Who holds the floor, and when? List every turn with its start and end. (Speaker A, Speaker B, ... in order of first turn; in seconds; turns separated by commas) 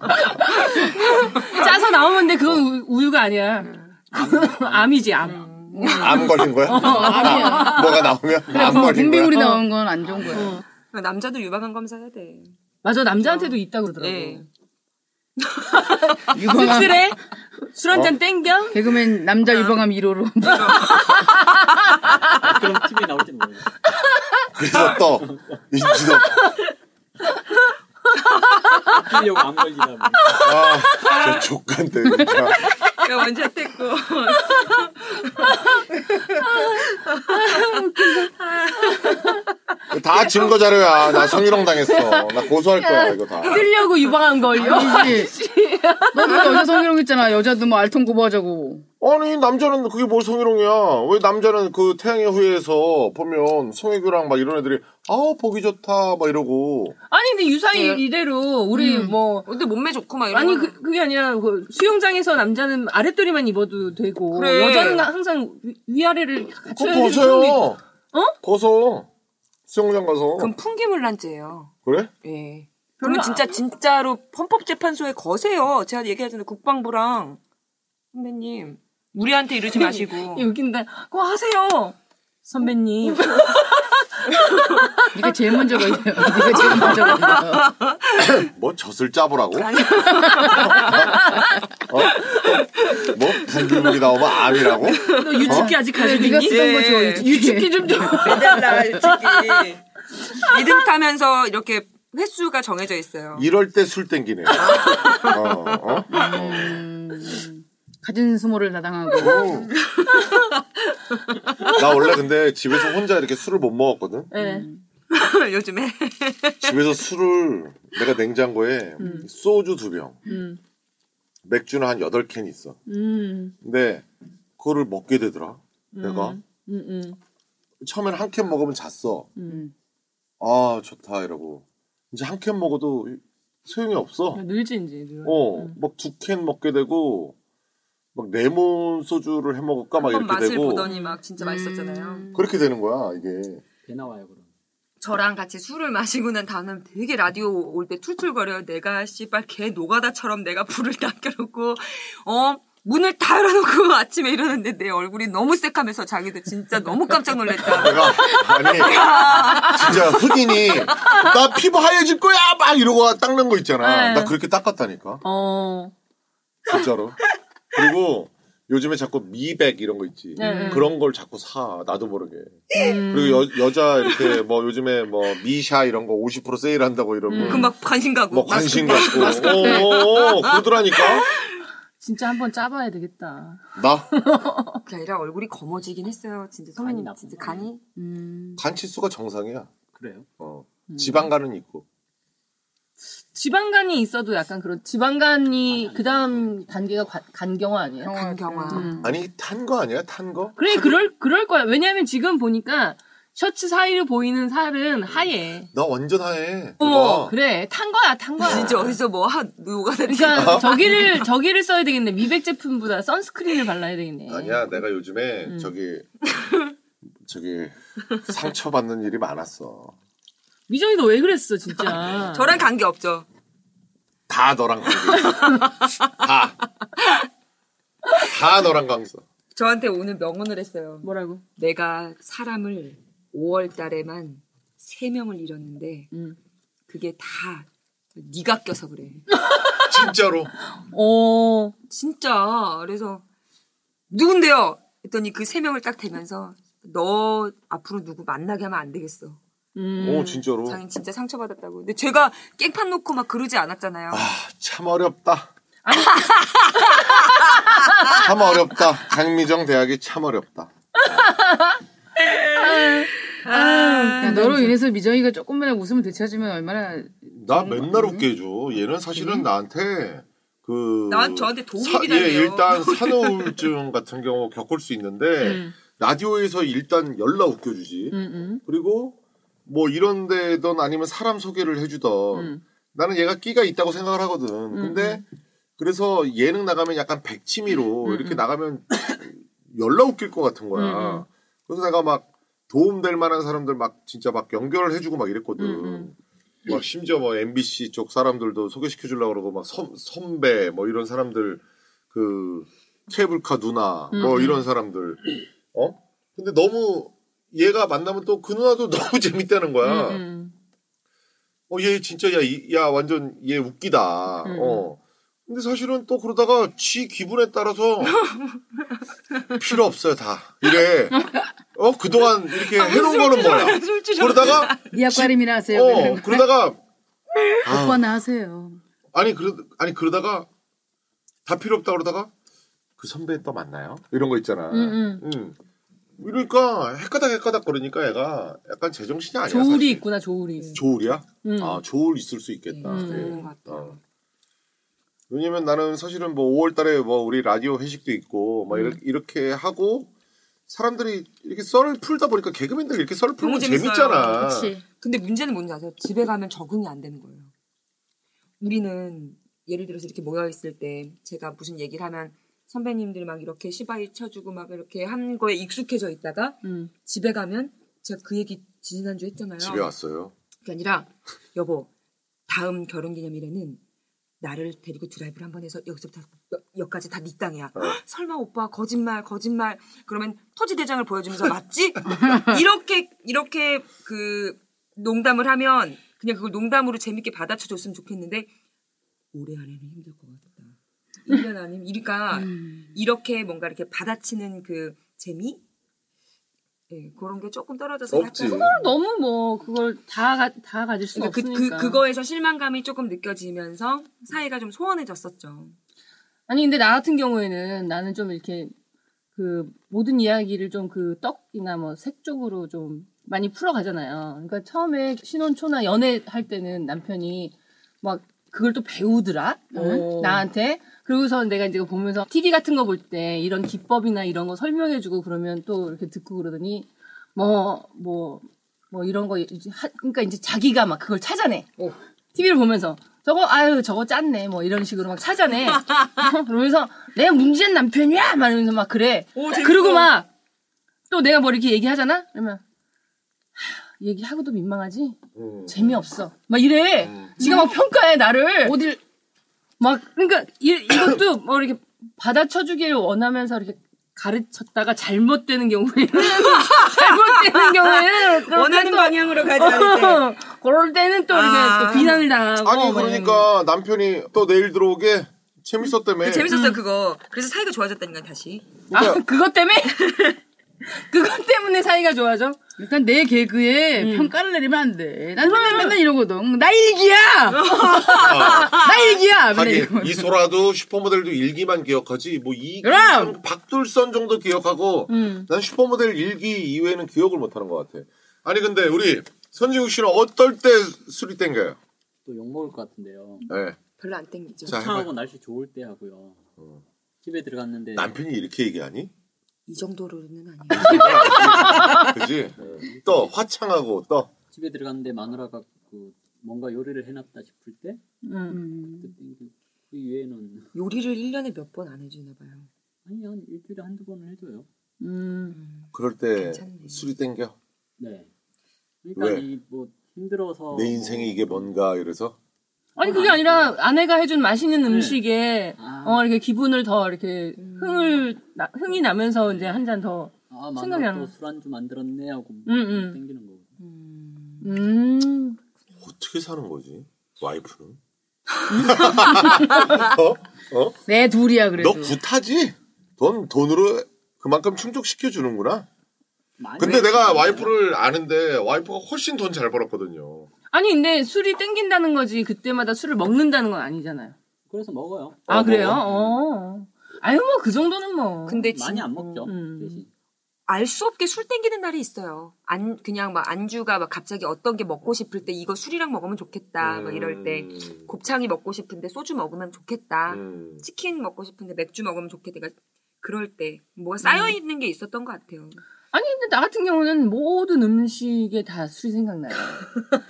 Speaker A: 0.4-9.6, Speaker B: 1.1-1.7, Speaker B: 3.6-3.9, Speaker C: 4.1-5.1, Speaker B: 5.2-6.5, Speaker D: 5.8-9.5, Speaker E: 6.7-7.9, Speaker E: 8.5-10.6, Speaker A: 10.3-10.6, Speaker B: 10.9-12.5, Speaker A: 12.8-14.4, Speaker B: 13.2-14.4, Speaker B: 15.4-16.0, Speaker A: 15.8-18.8, Speaker E: 16.3-17.1, Speaker E: 18.7-21.2, Speaker B: 20.4-21.4, Speaker C: 22.1-23.7, Speaker D: 24.5-26.5, Speaker C: 25.2-25.6, Speaker A: 26.2-26.6, Speaker B: 28.6-29.0, Speaker C: 28.9-30.5, Speaker D: 30.4-32.6, Speaker B: 31.0-31.4, Speaker B: 32.6-37.4, Speaker A: 35.4-38.1, Speaker E: 37.8-38.3, Speaker B: 38.2-39.2, Speaker A: 38.9-39.4, Speaker D: 39.9-43.6, Speaker A: 41.1-46.8, Speaker E: 44.5-45.3, Speaker E: 46.1-48.8, Speaker D: 49.0-56.9, Speaker A: 57.1-59.5, Speaker B: 57.7-58.0, Speaker E: 58.7-59.1, Speaker B: 59.5-60.8, Speaker A: 60.3-68.4, Speaker B: 64.3-65.1, Speaker D: 66.7-67.8, Speaker D: 68.4-69.1, Speaker D: 69.7-70.5, Speaker B: 70.4-77.4, Speaker D: 71.8-72.1, Speaker A: 73.0-73.6, Speaker B: 78.1-80.5, Speaker A: 79.7-86.0, Speaker E: 85.1-87.7, Speaker B: 86.5-88.5, Speaker D: 88.2-89.8, Speaker B: 89.5-91.4, Speaker E: 90.2-90.6, Speaker A: 90.5-91.5, Speaker D: 90.6-91.2, Speaker D: 91.9-95.7, Speaker B: 92.0-97.3, Speaker A: 95.0-99.7, Speaker E: 95.4-98.8, Speaker B: 97.9-103.5, Speaker D: 103.3-106.8, Speaker B: 104.5-106.7, Speaker A: 104.9-105.2, Speaker E: 106.1-109.7, Speaker D: 109.2-109.7, Speaker B: 109.7-110.6, Speaker D: 111.7-114.3, Speaker A: 114.3-114.7, Speaker E: 114.4-114.8, Speaker B: 115.1-116.8, Speaker D: 116.6-120.2, Speaker A: 119.0-119.3, Speaker A: 120.3-120.6, Speaker D: 121.4-122.8, Speaker A: 122.9-123.5, Speaker D: 123.6-124.0, Speaker D: 124.6-126.4, Speaker A: 125.9-127.2, Speaker D: 127.8-129.3, Speaker A: 129.4-129.6, Speaker D: 130.4-134.4, Speaker A: 134.3-135.8, Speaker D: 135.2-137.3, Speaker D: 138.1-140.9, Speaker B: 140.0-142.3, Speaker A: 140.9-141.2, Speaker E: 141.4-142.5, Speaker D: 142.3-143.6, Speaker C: 143.8-144.5, Speaker B: 145.0-161.3, Speaker D: 157.7-165.2, Speaker A: 163.8-164.3, Speaker A: 165.2-165.9, Speaker D: 166.7-167.2, Speaker D: 167.7-177.7, Speaker A: 170.4-170.9, Speaker B: 172.7-173.0, Speaker A: 172.7-173.5, Speaker A: 177.3-177.7, Speaker B: 177.4-181.6, Speaker D: 178.3-181.3, Speaker A: 179.0-179.9, Speaker A: 182.0-184.8, Speaker D: 183.8-184.1, Speaker B: 184.8-187.8, Speaker C: 186.8-187.7, Speaker E: 187.9-188.6, Speaker D: 188.6-189.7, Speaker C: 189.9-190.3, Speaker D: 190.4-191.8, Speaker A: 190.9-191.3, Speaker A: 193.2-198.2, Speaker C: 195.7-196.8, Speaker E: 198.0-199.2, Speaker B: 198.1-198.9, Speaker A: 198.7-199.0, Speaker D: 199.0-200.6, Speaker A: 200.6-205.7, Speaker D: 205.7-207.3, Speaker A: 206.8-208.9, Speaker B: 208.4-211.2, Speaker D: 208.4-208.9, Speaker A: 210.1-214.7, Speaker D: 210.3-210.8, Speaker D: 214.3-216.1, Speaker B: 216.3-216.6, Speaker D: 217.2-219.9, Speaker A: 220.7-222.5, Speaker B: 222.2-223.2, Speaker D: 224.3-226.6, Speaker D: 228.2-229.2, Speaker B: 229.5-236.1, Speaker A: 231.0-231.4, Speaker B: 236.9-239.2, Speaker A: 239.4-239.8, Speaker D: 239.9-240.5, Speaker A: 240.7-241.7, Speaker B: 241.9-243.2, Speaker B: 244.1-249.4, Speaker A: 249.8-250.4, Speaker D: 250.0-250.8, Speaker B: 250.6-254.2, Speaker D: 254.1-255.5, Speaker A: 255.8-256.4, Speaker B: 255.9-257.4, Speaker A: 256.9-258.2, Speaker D: 258.1-261.2, Speaker A: 260.9-261.8, Speaker A: 262.3-264.8, Speaker B: 262.5-264.5, Speaker E: 264.2-268.2, Speaker D: 267.3-285.2, Speaker B: 271.1-273.7, Speaker A: 275.4-275.7, Speaker A: 278.1-278.6, Speaker A: 282.3-282.6, Speaker A: 284.7-285.2, Speaker D: 285.8-296.1, Speaker A: 288.0-288.4, Speaker A: 290.7-291.2, Speaker A: 295.6-296.1, Speaker D: 296.6-310.2, Speaker A: 304.1-304.6, Speaker A: 309.8-310.5, Speaker D: 311.7-318.2, Speaker A: 314.4-314.9, Speaker B: 318.1-318.6, Speaker D: 319.5-321.2, Speaker D: 321.7-326.8, Speaker B: 322.5-324.9, Speaker E: 324.9-326.4, Speaker D: 327.6-328.0, Speaker E: 327.7-328.8, Speaker D: 329.1-330.5, Speaker D: 331.4-332.3, Speaker D: 333.0-335.6, Speaker A: 334.7-335.2, Speaker D: 336.2-340.0, Speaker A: 339.4-340.8, Speaker B: 340.6-340.8, Speaker D: 340.7-344.0, Speaker A: 341.4-341.8, Speaker B: 342.7-344.0, Speaker A: 342.8-343.5, Speaker D: 345.3-350.1, Speaker A: 348.7-349.0, Speaker D: 350.7-354.7, Speaker B: 353.4-354.5, Speaker E: 354.3-354.8, Speaker B: 355.0-357.5, Speaker B: 358.6-369.9, Speaker A: 366.6-366.9, Speaker D: 369.6-370.3, Speaker B: 370.6-371.9, Speaker B: 372.5-373.8, Speaker B: 374.4-388.5, Speaker E: 382.1-382.6, Speaker B: 389.3-395.6, Speaker E: 392.4-392.8, Speaker B: 396.9-398.8, Speaker D: 398.1-398.7, Speaker A: 398.4-402.0, Speaker B: 401.1-405.8, Speaker A: 406.5-408.7, Speaker A: 409.4-431.7, Speaker E: 419.7-420.1, Speaker B: 419.8-420.4, Speaker A: 432.3-440.3, Speaker B: 435.8-436.1, Speaker B: 439.4-440.1, Speaker A: 441.1-442.6, Speaker A: 443.6-448.8, Speaker D: 445.4-446.0, Speaker D: 447.0-447.4, Speaker E: 447.4-447.8, Speaker E: 448.6-449.0, Speaker A: 449.8-463.5, Speaker B: 456.3-460.2, Speaker B: 461.3-462.2, Speaker D: 462.6-466.5, Speaker B: 466.2-468.8, Speaker A: 466.5-466.8, Speaker A: 468.9-472.6, Speaker D: 468.9-469.2, Speaker E: 472.8-480.3, Speaker A: 474.0-474.3, Speaker A: 475.4-476.0, Speaker B: 477.5-479.2, Speaker D: 478.2-478.8, Speaker D: 479.5-491.8, Speaker E: 482.8-483.4, Speaker A: 485.1-485.5, Speaker C: 492.2-493.5, Speaker D: 493.5-493.8, Speaker B: 494.0-494.8, Speaker C: 494.6-496.5, Speaker D: 494.7-495.1, Speaker C: 497.2-498.1, Speaker D: 497.9-499.1, Speaker B: 499.7-501.8, Speaker D: 500.7-504.3, Speaker A: 501.6-502.0, Speaker C: 502.6-503.3, Speaker C: 504.5-508.0, Speaker A: 508.2-508.6, Speaker E: 508.5-509.1, Speaker C: 508.9-510.7, Speaker B: 510.7-512.7, Speaker C: 513.0-514.6, Speaker A: 515.0-515.6, Speaker B: 515.5-517.1, Speaker D: 515.9-517.5, Speaker C: 518.0-518.3, Speaker C: 519.0-521.7, Speaker D: 519.1-519.4, Speaker D: 520.7-522.4, Speaker A: 523.0-531.3, Speaker C: 523.0-523.8, Speaker C: 524.9-525.2, Speaker C: 525.8-526.2, Speaker B: 527.6-528.2, Speaker C: 530.5-533.7, Speaker A: 532.6-533.2, Speaker B: 533.8-534.7, Speaker A: 534.6-535.6, Speaker D: 536.0-538.0, Speaker D: 538.7-541.0, Speaker E: 541.1-542.1, Speaker D: 541.8-545.9, Speaker C: 546.6-547.8, Speaker D: 546.8-550.5, Speaker A: 550.7-554.4, Speaker C: 554.7-556.4, Speaker D: 555.5-556.0, Speaker A: 555.5-558.6, Speaker B: 558.5-559.2, Speaker C: 558.6-560.1, Speaker A: 559.2-560.0, Speaker B: 560.7-575.8, Speaker D: 566.8-568.0, Speaker D: 570.3-570.8, Speaker A: 574.2-574.5, Speaker A: 576.1-579.9